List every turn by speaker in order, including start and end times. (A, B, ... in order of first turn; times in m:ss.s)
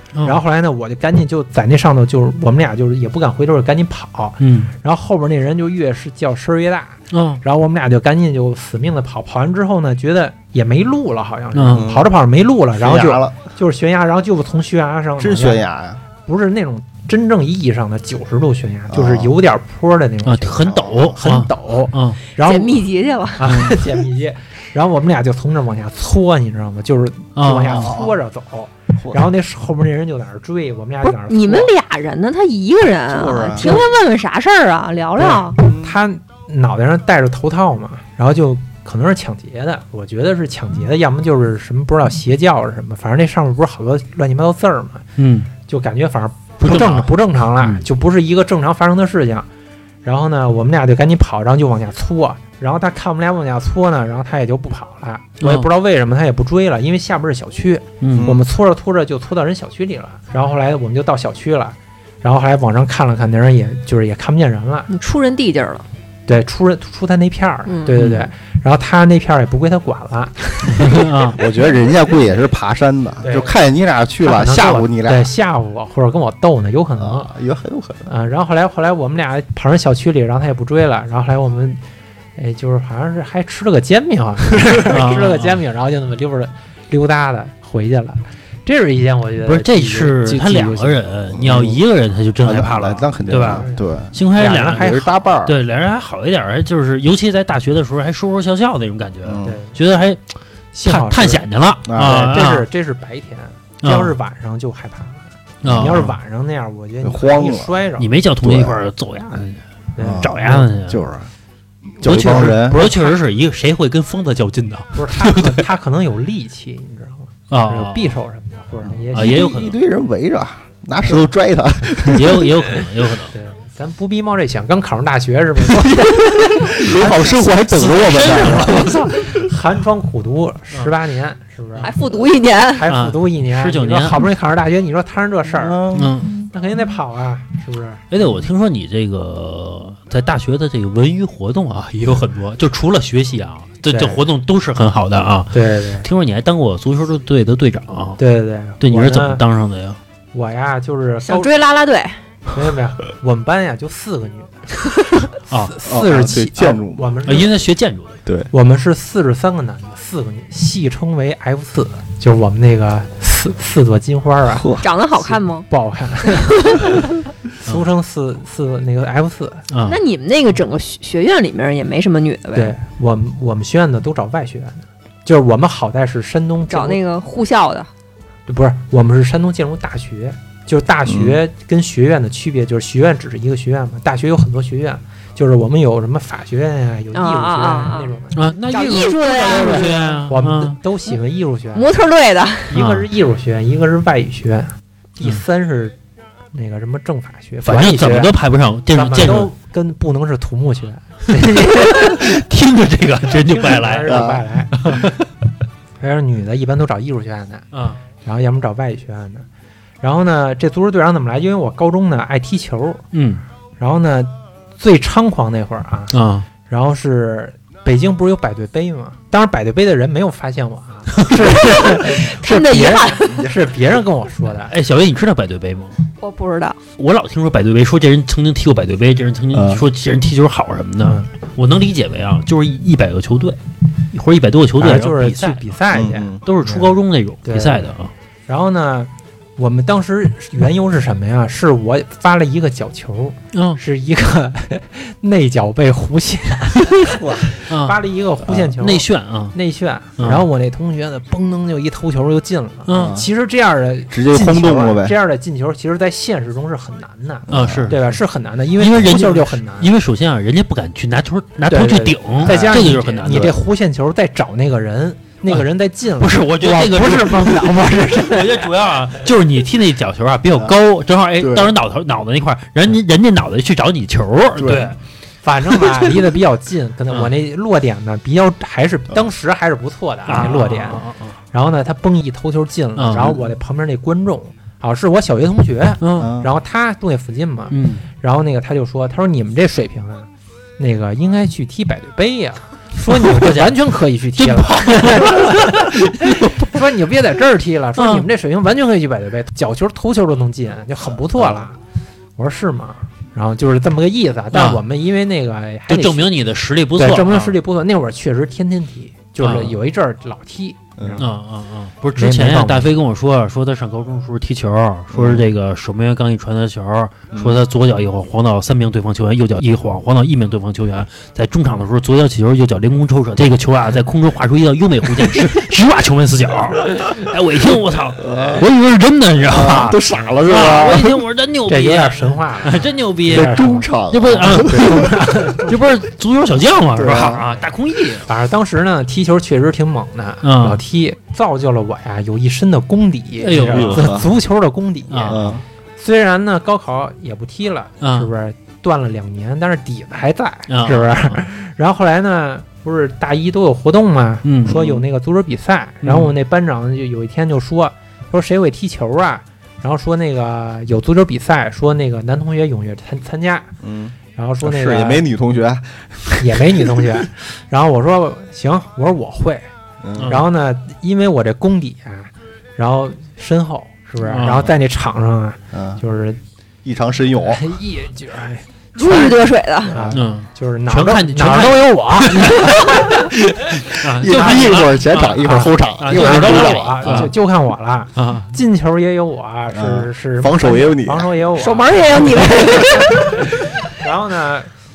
0:00.1-0:00.4 A
0:00.2-0:15.6 B
0:04.4-0:04.7 A
0:07.1-0:07.4 A
0:11.6-0:11.9 A
0:11.7-0:12.1 C
0:12.8-0:13.4 C
0:15.2-0:16.0 C
0:16.2-0:31.7 B
0:18.9-0:19.3 C
0:20.2-0:22.2 A
0:20.7-0:21.2 C
0:22.4-0:23.7 D
0:27.4-0:27.9 A
0:27.7-0:28.1 C
0:31.1-0:35.6 D
0:33.1-0:33.9 C
0:33.6-0:33.9 B
0:35.2-0:45.1 B
0:35.6-0:36.0 C
0:45.2-0:45.5 A
0:45.7-0:49.5 B
0:46.6-0:47.8 A
0:50.0-1:04.9 B
0:55.4-0:55.7 A
0:58.0-0:58.3 A
0:58.1-0:58.4 C
1:04.9-1:05.8 D
1:06.3-1:11.1 B
1:07.7-1:07.9 D
1:08.0-1:08.3 A
1:10.7-1:11.4 A
1:11.3-1:15.3 C
1:13.2-1:13.6 B
1:14.2-1:17.3 B
1:17.0-1:18.1 C
1:18.1-1:21.8 B
1:22.4-1:31.1 B
1:24.9-1:25.6 A
1:29.4-1:40.2 A
1:31.3-1:31.8 C
1:32.4-1:35.6 C
1:33.5-1:33.8 B
1:34.3-1:35.1 B
1:39.2-1:39.6 C
1:39.4-1:39.8 B
1:40.7-1:41.5 B
1:40.8-1:42.7 A
1:41.9-1:42.2 C
1:42.0-1:48.1 B
1:43.8-1:44.1 A
1:45.6-1:46.1 A
1:45.6-1:46.1 C
1:47.0-1:47.8 C
1:48.0-1:51.0 A
1:48.4-1:48.8 C
1:50.0-1:50.4 B
1:50.0-1:51.3 C
1:52.0-1:52.9 C
1:52.0-1:55.7 A
1:54.9-1:59.5 B
1:57.5-1:58.2 A
1:58.8-2:02.5 C
1:59.1-1:59.8 A
2:02.0-2:03.3 A
2:03.3-2:07.4 B
2:06.0-2:09.1 C
2:06.3-2:09.5 A
2:08.6-2:11.9 B
2:11.8-2:12.9 D
2:12.7-2:15.8 B
2:12.9-2:14.3 A
2:15.6-2:16.3 C
2:15.9-2:16.4 A
2:16.5-2:18.0 B
2:18.1-2:28.2 A
2:23.9-2:24.2 B
2:25.5-2:26.1 B
2:28.2-2:29.4 B
2:28.8-2:30.0 A
2:30.3-2:31.6 B
2:31.2-2:32.2 D
2:32.5-2:34.6 B
2:35.7-2:37.6 B
2:35.8-2:37.1 C
2:37.2-2:38.2 A
2:38.5-2:49.6 B
2:44.5-2:44.9 C
2:44.8-2:45.7 D
2:46.3-2:46.9 D
2:49.7-2:50.0 A
2:49.9-2:52.8 D
2:52.5-2:57.0 B
2:56.7-2:57.9 D
2:58.5-3:11.9 B
3:01.1-3:01.4 C
3:07.1-3:08.1 D
3:08.4-3:10.8 A
3:08.7-3:10.0 D
3:11.8-3:12.7 D
3:12.7-3:16.0 B
3:12.7-3:13.1 A
3:16.5-3:18.3 B
3:17.6-3:19.5 A
3:18.9-3:22.2 B
3:21.4-3:24.3 A
3:23.4-3:25.1 B
3:24.0-3:24.4 C
3:24.8-3:25.2 A
3:26.0-3:27.7 B
3:27.7-3:28.0 A
3:28.2-3:29.5 B
3:30.0-3:33.0 B
3:33.1-3:33.4 A
3:33.8-3:36.2 B
3:36.1-3:36.5 A
3:36.7-3:44.7 B
3:41.2-3:41.6 A
3:41.6-3:43.5 D
3:44.7-3:46.0 A
3:46.2-3:46.8 D
3:47.0-3:53.6 A
3:49.5-3:49.8 C
3:54.1-3:55.8 A
3:54.8-3:56.9 B
3:55.9-3:56.4 C
3:56.4-3:58.1 A
3:57.4-3:57.9 B
3:58.5-4:19.9 B
4:03.5-4:03.8 A
4:07.1-4:07.5 C
4:07.7-4:08.0 A
4:08.4-4:08.7 C
4:08.8-4:09.6 A
4:10.2-4:10.5 A
4:12.9-4:13.2 A
4:12.9-4:13.3 C
4:14.1-4:15.2 C
4:17.5-4:18.0 C
4:17.5-4:18.2 A
4:18.8-4:23.5 A
4:21.7-4:28.7 B
4:22.4-4:23.6 C
4:26.2-4:35.0 A
4:31.4-4:31.7 C
4:34.6-4:34.9 C
4:35.4-5:01.8 B
4:40.3-4:41.4 A
4:43.0-4:43.3 A
4:46.0-4:46.3 A
4:46.2-4:46.5 C
4:47.7-4:48.0 A
4:53.1-4:53.8 A
4:54.4-4:56.7 A
4:58.0-4:58.2 A
5:01.3-5:01.7 C
5:02.4-5:06.3 B
5:04.5-5:04.8 A
5:05.9-5:07.6 A
5:07.0-5:11.3 B
5:09.4-5:09.8 A
5:11.0-5:11.2 C
5:11.2-5:38.3 A
5:12.2-5:12.9 B
5:15.1-5:15.5 C
5:17.3-5:17.6 C
5:28.2-5:28.7 C
5:29.4-5:31.2 C
5:31.7-5:33.9 B
5:33.3-5:35.0 C
5:34.6-5:35.8 B
5:37.0-5:37.5 C
5:38.2-6:03.7 B
5:40.4-5:40.8 A
5:43.4-5:44.2 A
5:43.5-5:44.3 C
5:45.1-5:45.4 A
5:45.3-5:45.6 C
5:48.0-5:48.3 A
5:50.7-5:51.4 A
5:54.4-5:54.8 A
5:54.7-5:55.0 C
5:56.0-5:56.3 A
6:03.8-6:07.2 C
6:04.4-6:05.2 B
6:06.4-6:09.7 B
6:10.0-6:10.4 C
6:10.2-6:10.4 A
6:10.3-6:16.4 B
6:14.2-6:14.7 A
6:15.7-6:16.0 C
6:16.8-6:17.7 C
6:17.5-6:23.3 B
6:19.0-6:20.0 D
6:19.9-6:20.2 C
6:20.1-6:22.8 A
6:23.8-6:27.3 A
6:24.2-6:27.3 C
6:24.2-6:24.9 B
6:25.4-6:34.7 B
6:28.2-6:28.5 A
6:29.7-6:31.3 C
6:31.6-6:33.4 D